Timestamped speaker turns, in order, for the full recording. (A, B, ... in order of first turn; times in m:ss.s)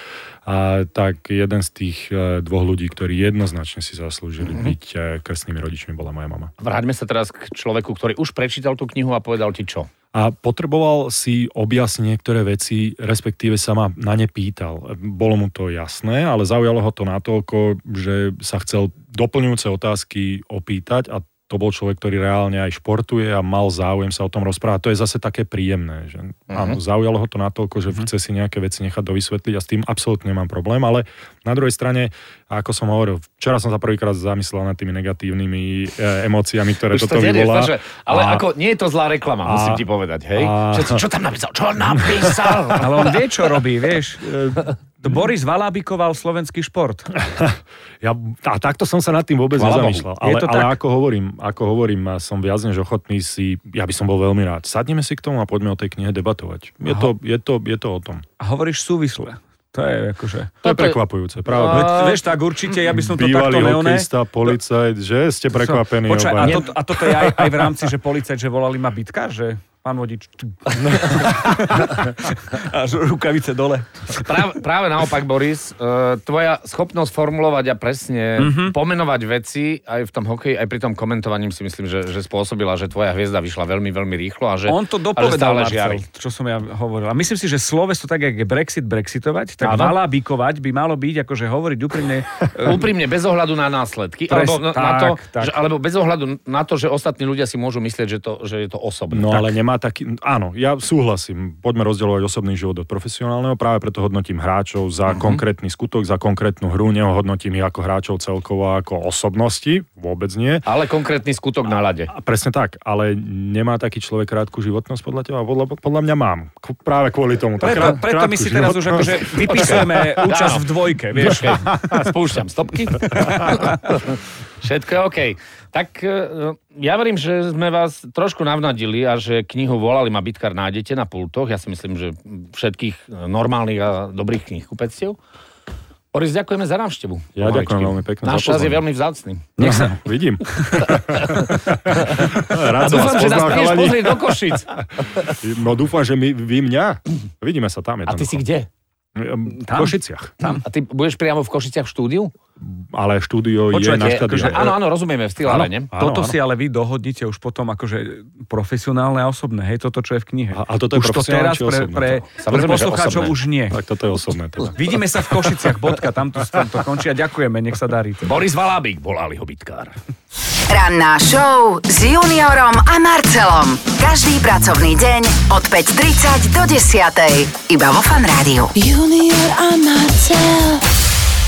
0:00.4-0:06.5 A
0:04.4-0:04.7 B
0:06.6-0:09.9 B
0:10.1-0:38.4 A
0:26.5-0:26.8 B
0:36.9-0:43.2 B
0:39.4-0:39.8 A
0:40.3-0:41.0 A
0:41.8-0:43.0 A
0:42.8-0:47.2 C
0:44.3-0:44.7 A
0:47.2-0:58.2 A
0:49.6-0:50.1 B
0:50.1-0:50.8 C
0:56.8-0:57.1 C
0:58.4-1:00.6 C
1:00.6-1:01.0 B
1:00.6-1:02.0 A
1:01.5-1:02.2 B
1:01.5-1:04.5 C
1:02.9-1:07.8 A
1:05.5-1:14.4 C
1:10.8-1:12.0 A
1:14.1-1:26.0 B
1:18.4-1:18.8 C
1:24.6-1:32.9 C
1:29.6-1:30.0 B
1:32.6-1:39.5 B
1:34.3-1:35.6 C
1:39.1-1:50.7 A
1:45.1-1:45.4 B
1:50.6-1:52.1 B
1:52.1-1:59.2 A
1:57.6-2:01.6 C
1:59.3-2:15.2 B
2:01.2-2:02.0 A
2:03.1-2:03.8 C
2:16.1-2:19.5 B
2:17.4-2:18.8 A
2:19.6-2:21.0 C
2:19.6-2:28.4 A
2:21.0-2:21.5 B
2:22.1-2:25.3 B
2:22.8-2:23.7 C
2:28.0-2:28.7 B
2:29.2-2:30.4 A
2:29.6-2:30.6 C
2:30.4-2:32.3 B
2:32.6-2:34.8 A
2:33.7-2:34.8 C
2:33.8-2:35.9 B
2:35.4-2:36.4 A
2:35.9-2:43.8 C
2:40.5-2:42.2 A
2:42.4-2:43.4 B
2:43.7-2:44.7 A
2:44.7-2:48.4 C
2:48.2-2:49.9 B
2:50.7-2:58.7 D
2:58.7-3:00.8 E